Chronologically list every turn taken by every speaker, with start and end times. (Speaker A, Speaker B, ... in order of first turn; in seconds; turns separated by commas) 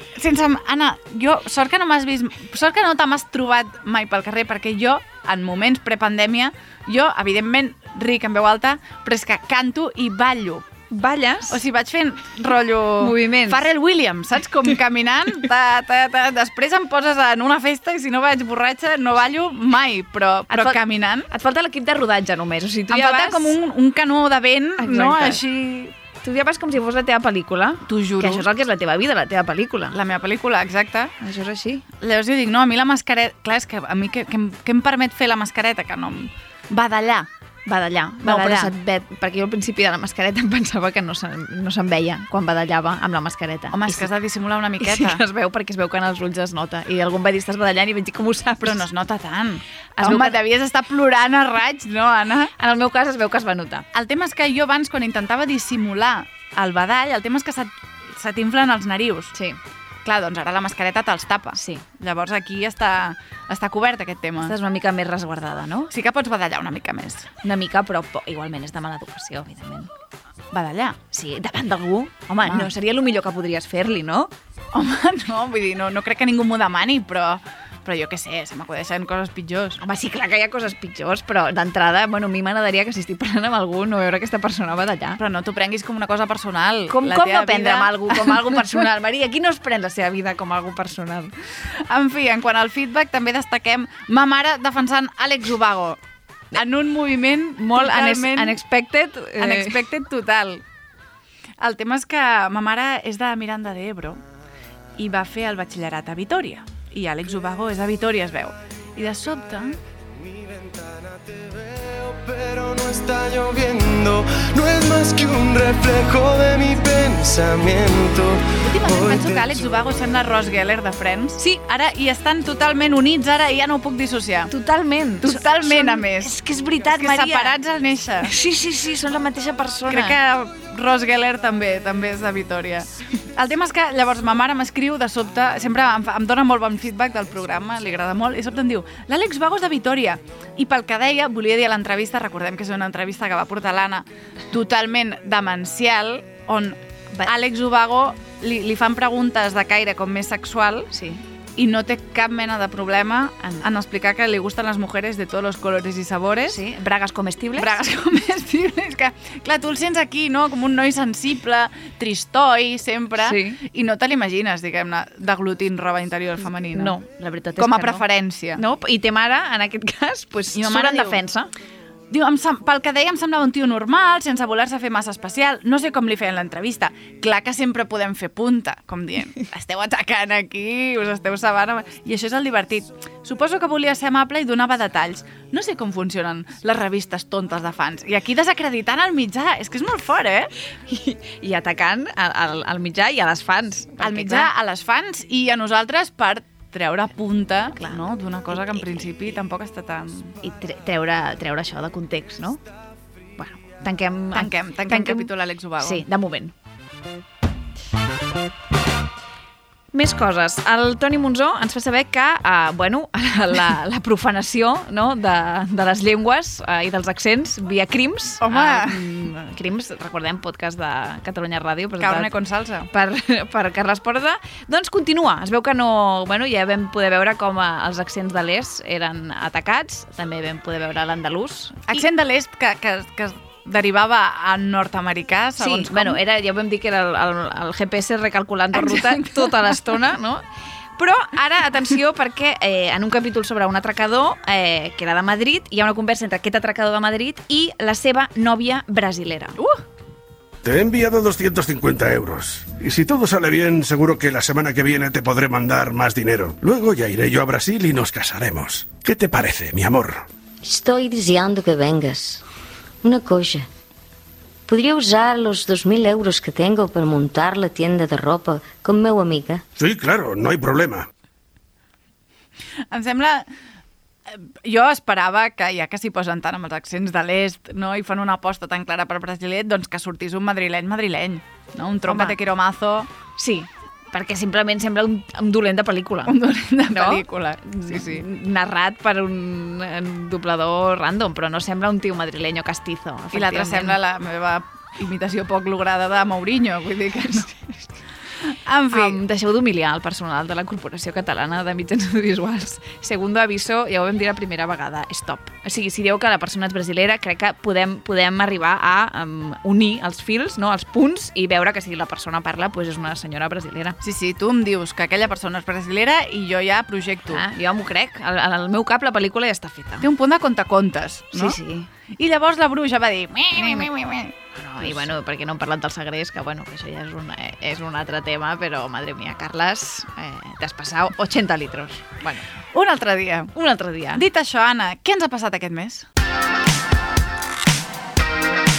Speaker A: 0.1-10.6, Speaker B: 10.9-11.6, Speaker A: 11.5-21.3, Speaker B: 13.0-13.6, Speaker B: 20.5-20.8, Speaker B: 21.3-23.5, Speaker A: 22.9-25.9, Speaker B: 24.8-25.4, Speaker B: 26.2-30.0, Speaker A: 27.9-28.4, Speaker A: 29.9-31.1, Speaker B: 31.2-31.8, Speaker A: 32.0-37.3, Speaker B: 37.7-44.1, Speaker A: 38.2-38.7, Speaker A: 43.7-45.2, Speaker B: 44.8-48.8, Speaker A: 48.6-52.5, Speaker B: 50.0-50.4, Speaker B: 52.6-53.9, Speaker A: 53.9-59.3, Speaker A: 60.0-64.5, Speaker B: 61.5-61.8, Speaker B: 64.4-65.9, Speaker A: 65.9-67.3, Speaker B: 67.4-69.9, Speaker A: 70.5-71.0, Speaker B: 71.1-74.3, Speaker A: 72.4-72.7, Speaker A: 74.7-79.8, Speaker B: 79.8-85.2, Speaker A: 85.2-88.8, Speaker B: 86.9-91.3, Speaker A: 91.9-96.0, Speaker A: 96.5-98.6, Speaker B: 97.6-99.8, Speaker A: 99.4-100.6, Speaker A: 101.6-104.2, Speaker A: 105.0-109.8, Speaker C: 110.2-119.7, Speaker A: 118.6-124.5, Speaker B: 124.5-127.5, Speaker A: 125.2-128.3, Speaker B: 128.2-130.2, Speaker A: 129.9-150.9, Speaker B: 150.9-151.2, Speaker A: 151.6-156.6, Speaker B: 156.5-157.8, Speaker A: 157.6-167.0, Speaker B: 163.2-163.6, Speaker B: 166.7-168.0, Speaker A: 167.6-168.6, Speaker B: 168.6-171.5, Speaker A: 170.5-171.2, Speaker A: 172.1-190.5, Speaker B: 190.9-194.5, Speaker A: 194.0-200.3, Speaker B: 197.8-199.1, Speaker B: 200.4-202.6, Speaker B: 203.4-206.5, Speaker A: 204.3-206.0, Speaker B: 209.9-222.3, Speaker A: 218.4-219.0, Speaker A: 222.0-222.9, Speaker B: 222.9-232.0, Speaker A: 231.9-236.2, Speaker B: 235.6-240.4, Speaker A: 238.7-239.8, Speaker B: 241.0-249.6, Speaker D: 250.6-260.2, Speaker E: 260.6-262.4, Speaker E: 263.0-263.7, Speaker E: 264.7-269.6, Speaker D: 269.8-271.1, Speaker A: 272.9-273.5, Speaker A: 274.3-283.1, Speaker B: 282.1-282.4, Speaker B: 283.4-286.4, Speaker A: 286.3-288.2, Speaker B: 286.9-294.0, Speaker A: 293.3-297.5, Speaker A: 298.5-299.2, Speaker B: 298.9-314.0, Speaker A: 314.0-317.4, Speaker B: 317.3-320.1, Speaker A: 320.0-321.6, Speaker B: 321.3-321.9, Speaker A: 322.2-325.1, Speaker B: 323.6-323.9, Speaker B: 324.6-332.4, Speaker A: 332.7-333.5, Speaker B: 333.5-334.2, Speaker A: 334.1-336.1